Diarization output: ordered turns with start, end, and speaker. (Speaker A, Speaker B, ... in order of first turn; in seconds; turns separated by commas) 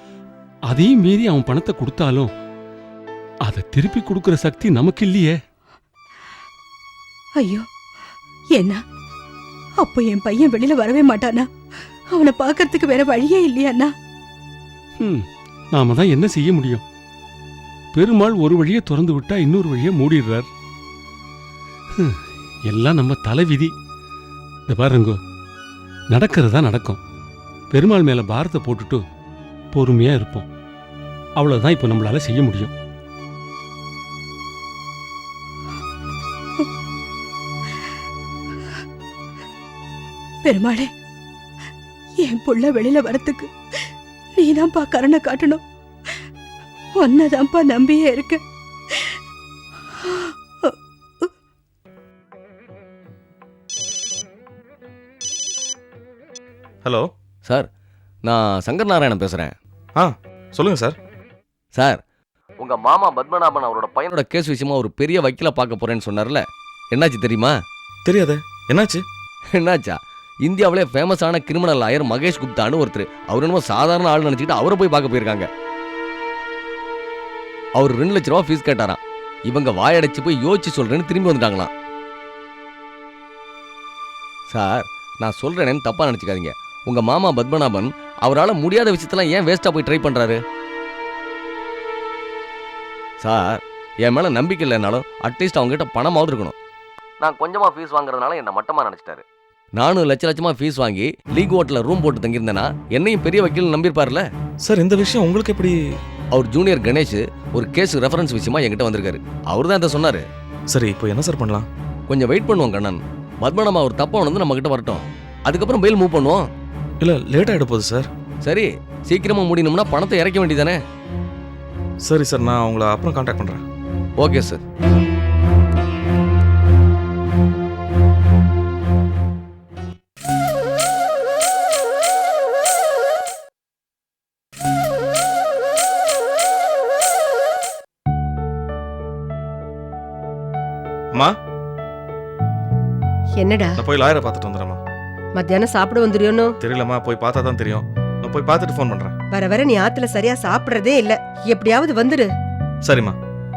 Speaker A: 0.7-2.3, Speaker A: 3.5-5.4, Speaker B: 7.4-7.7, Speaker B: 9.8-11.5, Speaker B: 12.1-13.9, Speaker A: 15.7-16.8, Speaker A: 17.9-20.5, Speaker A: 22.7-23.7, Speaker A: 24.7-25.1, Speaker A: 26.1-27.0, Speaker A: 27.7-29.0, Speaker A: 29.7-30.5, Speaker A: 31.4-32.7, Speaker B: 40.4-40.9, Speaker B: 42.2-43.5, Speaker B: 44.4-45.6, Speaker B: 47.0-48.4, Speaker B: 50.1-51.3, Speaker C: 56.9-57.1, Speaker D: 58.2-59.5, Speaker C: 60.0-61.0, Speaker D: 61.7-62.0, Speaker D: 62.6-67.5, Speaker C: 68.0-69.0, Speaker D: 69.5-75.5, Speaker D: 77.8-81.7, Speaker D: 84.5-90.4, Speaker D: 93.2-96.5, Speaker D: 97.2-99.2, Speaker D: 99.8-104.3, Speaker C: 104.6-105.8, Speaker D: 106.3-110.2, Speaker C: 110.7-111.7, Speaker D: 112.1-116.5, Speaker C: 117.0-118.1, Speaker D: 118.4-120.8, Speaker C: 122.0-123.6, Speaker D: 124.2-124.6, Speaker E: 143.4-143.8, Speaker C: 143.8-144.8, Speaker E: 145.3-146.5, Speaker C: 146.6-149.2, Speaker E: 149.3-152.3, Speaker C: 152.8-153.2